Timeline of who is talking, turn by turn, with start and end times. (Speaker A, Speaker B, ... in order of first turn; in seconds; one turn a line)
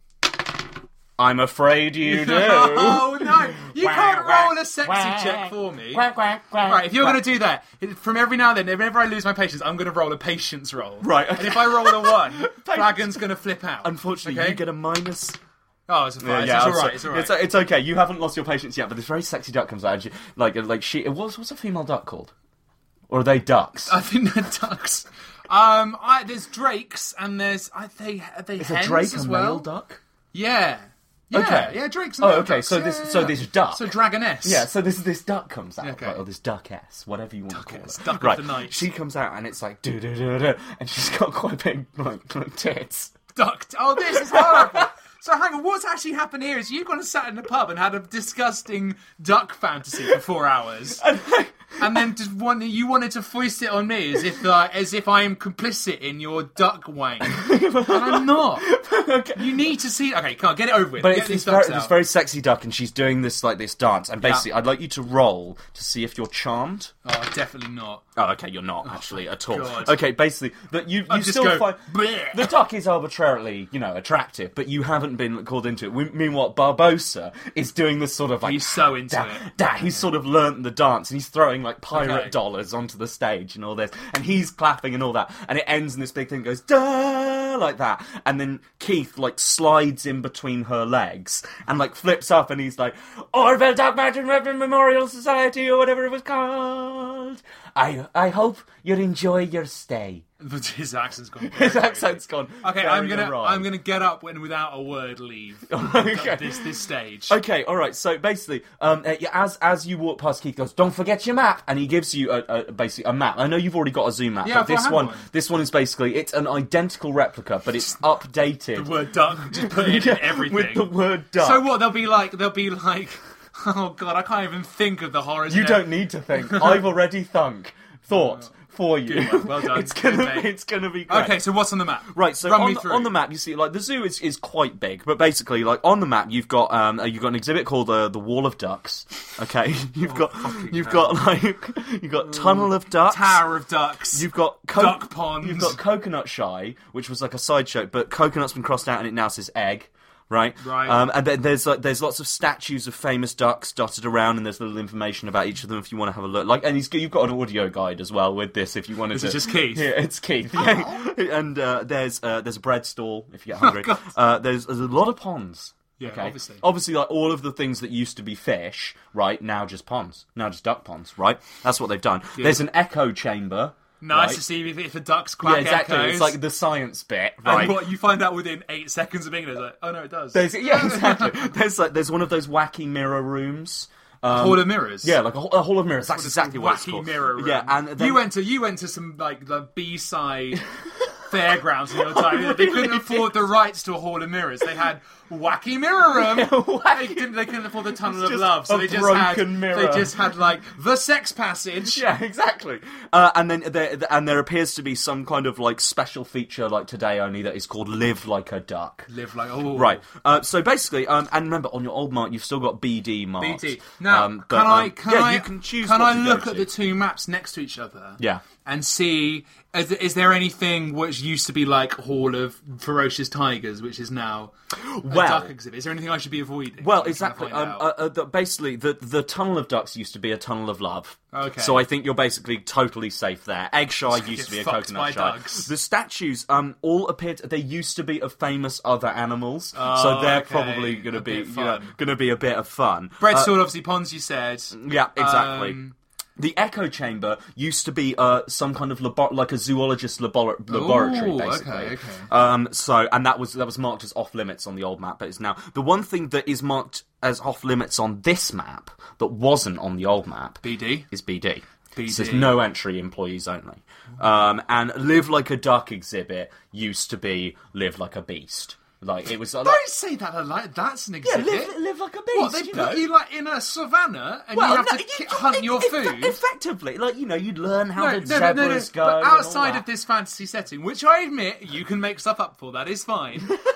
Speaker A: 1.2-7.2
Speaker B: 2.0-6.1
Speaker B: 6.6-14.6
Speaker A: 11.0-13.2
Speaker A: 13.8-15.4
Speaker B: 15.9-17.3
Speaker A: 16.2-22.3
Speaker A: 23.1-24.0
Speaker B: 23.9-29.7
Speaker A: 28.6-30.0
Speaker B: 30.3-34.6
Speaker A: 31.3-43.2
Speaker B: 35.8-36.2
Speaker B: 37.5-38.9
Speaker B: 43.3-51.0
Speaker A: 44.0-44.9
Speaker A: 51.0-52.0
Speaker B: 51.8-58.7
Speaker A: 57.2-59.7
Speaker B: 59.3-62.0
Speaker A: 61.0-66.9
Speaker B: 64.2-64.5
Speaker B: 67.0-68.0
Speaker A: 68.2-100.2
Speaker B: 68.8-70.0
Speaker B: 71.1-72.5
Speaker B: 78.4-80.1
Speaker B: 81.9-82.3
Speaker B: 100.4-107.4
Speaker A: 101.4-103.7
Speaker A: 105.7-118.9
Speaker B: 114.4-115.3
Speaker B: 118.7-126.9
Speaker A: 119.4-121.7
Speaker A: 125.5-131.4
Speaker B: 128.1-128.5
Speaker B: 129.1-130.5
Speaker B: 131.1-133.1
Speaker A: 132.1-143.4
Speaker B: 140.0-141.2
Speaker B: 142.3-145.8
Speaker A: 144.1-174.4
Speaker B: 150.6-151.0
Speaker B: 159.1-159.9
Speaker B: 160.5-161.0
Speaker B: 163.6-164.1
Speaker B: 166.0-166.6
Speaker B: 172.4-172.6
Speaker B: 174.0-176.4
Speaker A: 175.4-177.8
Speaker B: 177.4-181.5
Speaker A: 180.3-188.2
Speaker B: 184.3-185.2
Speaker B: 186.1-190.6
Speaker B: 191.3-202.0
Speaker A: 191.9-193.4
Speaker A: 196.1-200.3
Speaker A: 201.8-209.1
Speaker B: 209.1-210.0
Speaker A: 209.7-216.7
Speaker B: 213.4-224.5
Speaker A: 218.2-218.4
Speaker A: 224.7-225.5
Speaker B: 225.1-227.9
Speaker A: 226.8-243.6
Speaker B: 231.3-231.8
Speaker B: 234.1-235.7
Speaker B: 239.7-241.9
Speaker B: 243.2-245.9
Speaker A: 244.7-245.8
Speaker A: 246.4-269.8
Speaker B: 250.7-252.3
Speaker B: 260.6-261.1
Speaker B: 261.9-262.6
Speaker B: 269.6-271.7
Speaker A: 271.2-273.1
Speaker B: 272.3-276.4
Speaker A: 274.5-279.8
Speaker B: 278.0-283.6